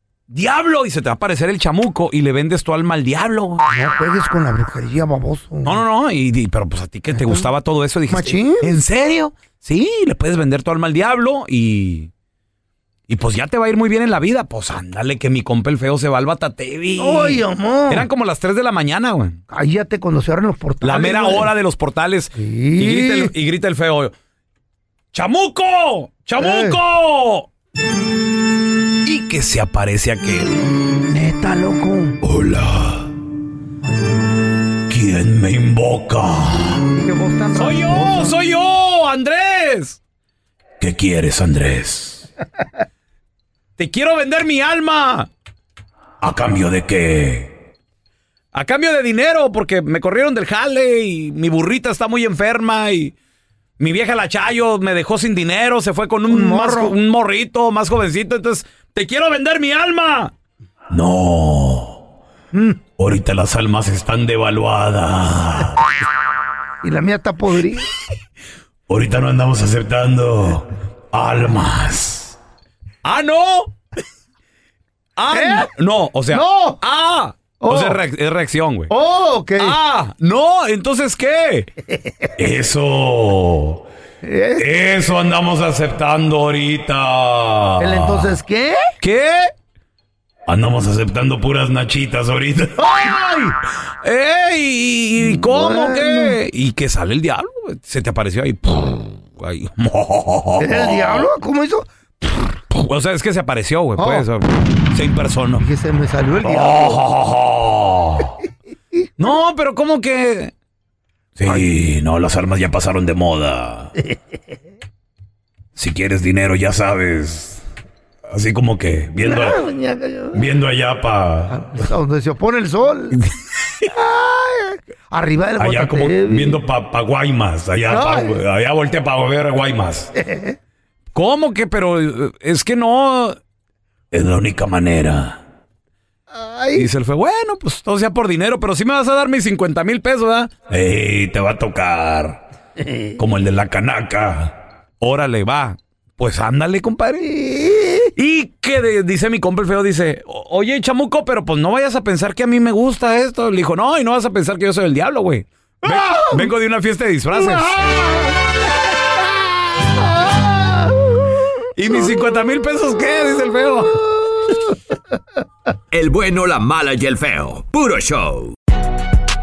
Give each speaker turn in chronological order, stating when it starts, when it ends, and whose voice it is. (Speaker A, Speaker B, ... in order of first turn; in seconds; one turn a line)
Speaker A: 0.3-3.7
Speaker B: 3.7-5.8
Speaker A: 5.6-12.1
Speaker B: 7.1-7.5
Speaker B: 8.1-8.7
Speaker A: 13.1-19.4
Speaker B: 17.0-18.1
Speaker B: 19.5-21.5
Speaker A: 20.8-24.1
Speaker B: 22.4-23.3
Speaker A: 25.1-27.5
Speaker B: 26.4-26.8
Speaker A: 29.1-30.6
Speaker B: 31.1-32.2
Speaker A: 32.2-33.1
Speaker A: 34.9-36.9
Speaker B: 37.0-38.4
Speaker A: 37.5-40.0
Speaker A: 40.8-42.3
Speaker A: 43.8-45.3
Speaker A: 46.2-47.5
Speaker A: 48.5-53.1
Speaker A: 53.8-60.3
Speaker B: 56.3-56.9
Speaker A: 60.9-62.0
Speaker B: 62.5-62.8
Speaker A: 63.0-65.9
Speaker B: 66.8-67.9
Speaker A: 68.9-72.4
Speaker A: 73.0-73.8
Speaker A: 75.2-78.9
Speaker B: 75.3-75.7
Speaker B: 76.3-76.8
Speaker B: 77.6-78.0
Speaker B: 78.9-79.8
Speaker A: 79.6-81.7
Speaker B: 81.9-82.3
Speaker A: 82.4-83.8
Speaker B: 84.2-84.6
Speaker A: 84.6-88.4
Speaker B: 87.8-88.8
Speaker A: 89.0-89.5
Speaker A: 90.5-92.8
Speaker B: 92.8-93.5
Speaker A: 94.0-101.3
Speaker B: 95.2-96.4
Speaker B: 100.6-101.9
Speaker A: 102.7-105.6
Speaker B: 104.0-104.2
Speaker B: 105.6-107.0
Speaker A: 106.4-108.3
Speaker A: 109.2-110.5
Speaker A: 111.4-113.9
Speaker A: 115.8-117.6
Speaker A: 118.3-119.6
Speaker B: 119.2-120.4
Speaker A: 120.3-121.8
Speaker B: 121.5-123.2
Speaker B: 123.9-126.6
Speaker A: 125.6-130.1
Speaker B: 127.9-128.4
Speaker B: 130.1-130.6
Speaker A: 131.1-133.4
Speaker A: 134.1-135.4
Speaker B: 136.3-136.9
Speaker A: 136.8-142.4
Speaker B: 142.8-143.2
Speaker A: 143.2-147.3
Speaker B: 147.2-148.1
Speaker A: 148.1-157.8
Speaker B: 155.8-156.5
Speaker B: 157.3-158.4
Speaker B: 160.2-160.8
Speaker A: 161.8-164.0
Speaker C: 165.9-168.5